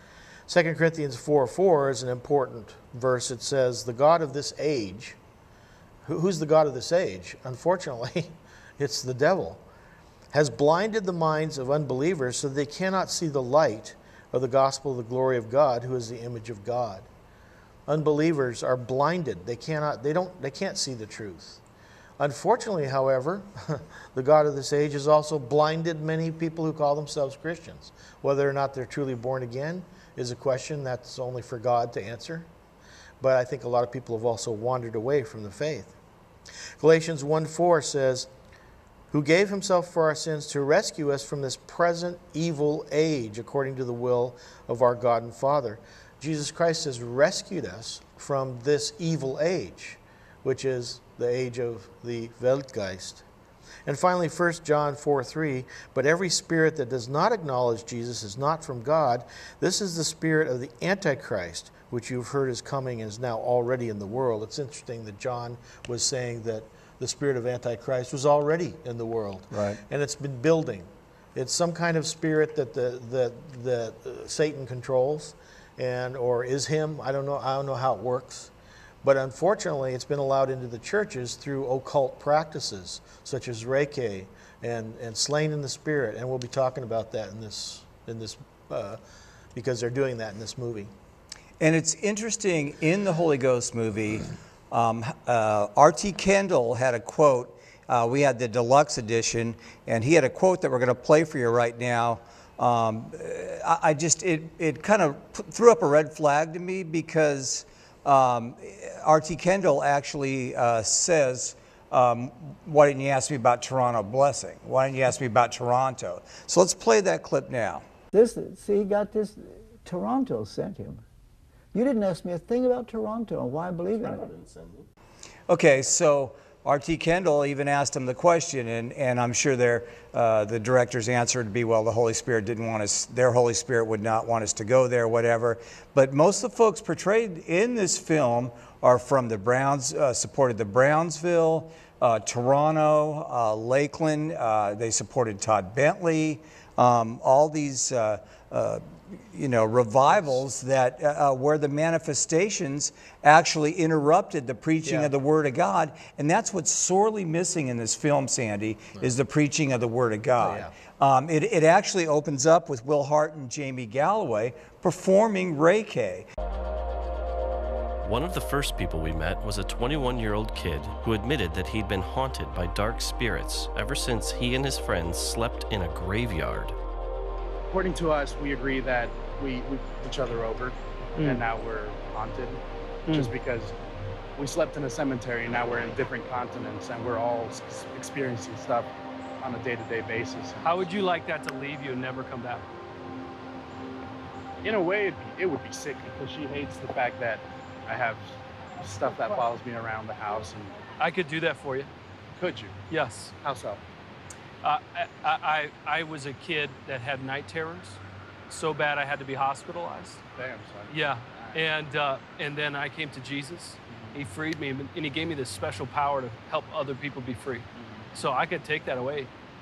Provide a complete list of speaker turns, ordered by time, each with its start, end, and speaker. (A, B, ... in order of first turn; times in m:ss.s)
0:00.5-0:05.2 A
0:06.0-0:09.6 A
0:10.3-0:17.1 A
0:17.9-0:21.6 A
0:22.2-0:32.5 A
0:33.2-0:36.0 A
0:36.8-0:38.3 A
0:39.1-0:53.2 A
0:53.8-1:18.5 A
1:09.5-1:09.8 B
1:19.0-1:29.0 A
1:29.5-1:30.9 A
1:31.6-1:57.8 B
1:58.1-2:01.0 C
2:01.7-2:04.4 C
2:05.5-2:46.3 B
2:30.1-2:30.4 A
2:34.8-2:35.1 A
2:40.4-2:40.7 A
2:48.0-2:56.8 D
2:57.7-3:03.7 E
3:03.1-3:03.3 F
3:04.4-3:10.9 E
3:10.6-3:12.6 F
3:14.6-3:20.8 E
3:21.0-3:21.9 F
3:22.4-3:22.8 E
3:22.9-3:23.3 F
3:23.4-3:23.8 E
3:24.6-3:30.2 F
3:30.4-3:31.8 E
3:30.9-3:39.3 F
3:33.9-3:34.2 E
3:37.7-3:38.0 E